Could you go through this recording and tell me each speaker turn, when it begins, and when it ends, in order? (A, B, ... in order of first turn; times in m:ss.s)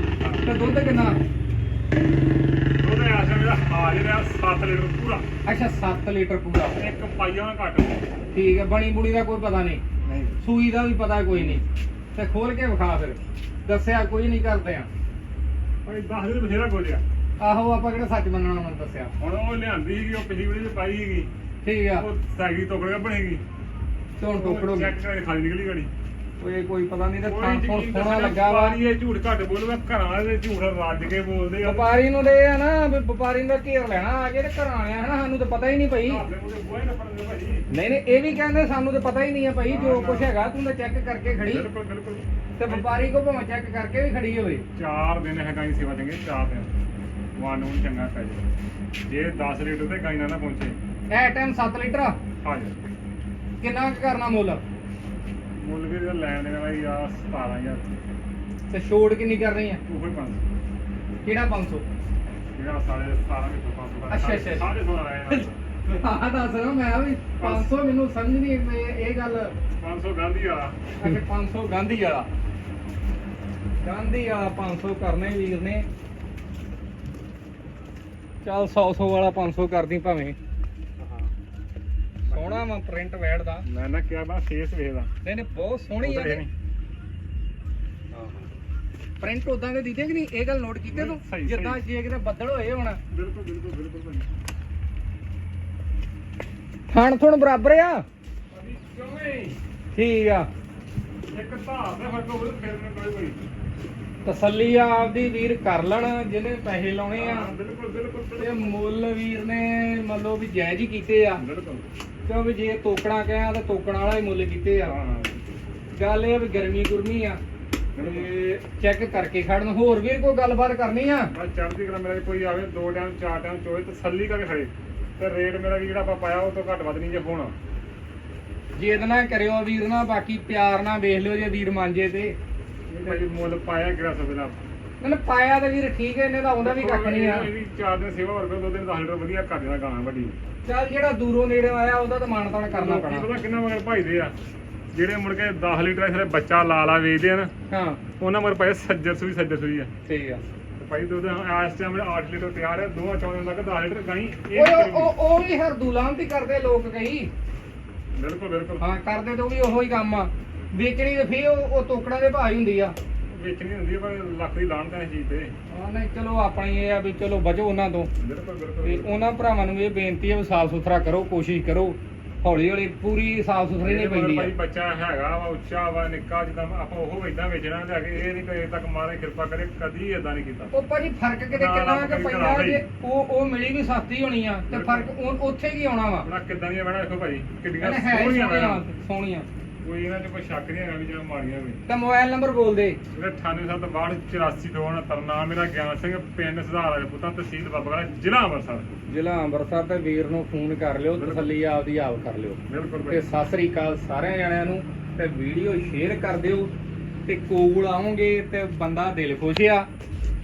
0:00.2-0:00.4 A
0:00.4-0:01.2 B
0:02.8-0:05.2 A
0:05.4-0:06.8 B
0:06.8-0:08.1 A
0:08.3-0:09.8 B
0:10.0-0:10.4 A
0:10.4-0:11.6 B
0:11.3-0:11.6 A
0:12.1-0:14.9 B
0:15.8-0:17.0 A
0:17.4-0:19.1 B
0:19.2-0:21.3 A
0:21.6-0:22.0 B
0:21.9-0:23.4 A
0:24.2-0:24.9 B
0:24.4-0:25.9 A
0:26.4-0:28.8 B
0:27.2-0:31.9 A
0:31.6-0:36.2 B
0:36.0-0:37.7 A
0:37.7-0:41.7 B
0:39.6-0:40.3 A
0:41.4-0:42.9 A
0:42.6-0:44.6 B
0:44.7-0:46.7 A
0:47.4-0:48.5 A
0:49.0-0:50.8 A
0:51.1-0:52.2 B
0:52.4-0:52.8 A
0:53.6-0:54.6 B
0:55.6-0:57.9 A
0:58.7-0:59.8 B
0:59.9-1:00.4 A
1:01.2-1:01.8 B
1:02.5-1:05.6 A
1:04.1-1:04.6 B
1:05.3-1:09.5 B
1:07.4-1:07.7 A
1:09.8-1:10.8 A
1:11.0-1:12.3 B
1:13.8-1:15.8 B
1:18.4-1:20.4 B
1:21.0-1:21.3 A
1:22.3-1:22.6 A
1:22.3-1:23.6 B
1:23.6-1:25.1 A
1:25.2-1:26.4 B
1:26.0-1:26.5 A
1:28.1-1:28.4 A
1:29.2-1:33.0 B
1:30.9-1:31.8 A
1:33.1-1:34.3 A
1:36.9-1:38.0 B
1:38.5-1:39.6 A
1:39.9-1:40.5 B
1:41.3-1:43.4 A
1:44.2-1:47.5 B
1:47.1-1:48.8 A
1:48.4-1:51.4 B
1:51.4-1:51.8 A
1:52.2-1:54.9 B
1:54.8-1:55.4 A
1:55.9-1:57.4 B
1:57.9-1:58.4 A
1:58.0-2:01.3 B
2:01.3-2:07.5 A
2:08.8-2:12.3 B
2:12.9-2:14.6 A
2:15.0-2:17.5 B
2:16.6-2:20.4 A
2:20.6-2:23.3 B
2:22.7-2:24.3 A
2:24.9-2:27.5 A
2:27.7-2:28.0 B
2:28.2-2:29.9 A
2:30.1-2:30.4 B
2:30.8-2:35.1 A
2:34.5-2:37.3 B
2:38.1-2:38.8 A
2:38.8-2:42.9 B
2:43.3-2:45.5 A
2:45.7-2:48.1 B
2:48.2-2:49.2 A
2:48.8-2:54.5 B
2:53.8-3:00.7 A
3:00.7-3:06.3 B
3:01.5-3:02.8 A
3:04.7-3:05.1 A
3:06.2-3:08.8 A
3:07.8-3:09.5 B
3:09.8-3:11.8 A
3:11.9-3:13.0 B
3:13.1-3:18.9 A
3:19.1-3:26.7 B
3:21.2-3:21.5 A
3:22.7-3:23.2 A
3:27.2-3:29.9 B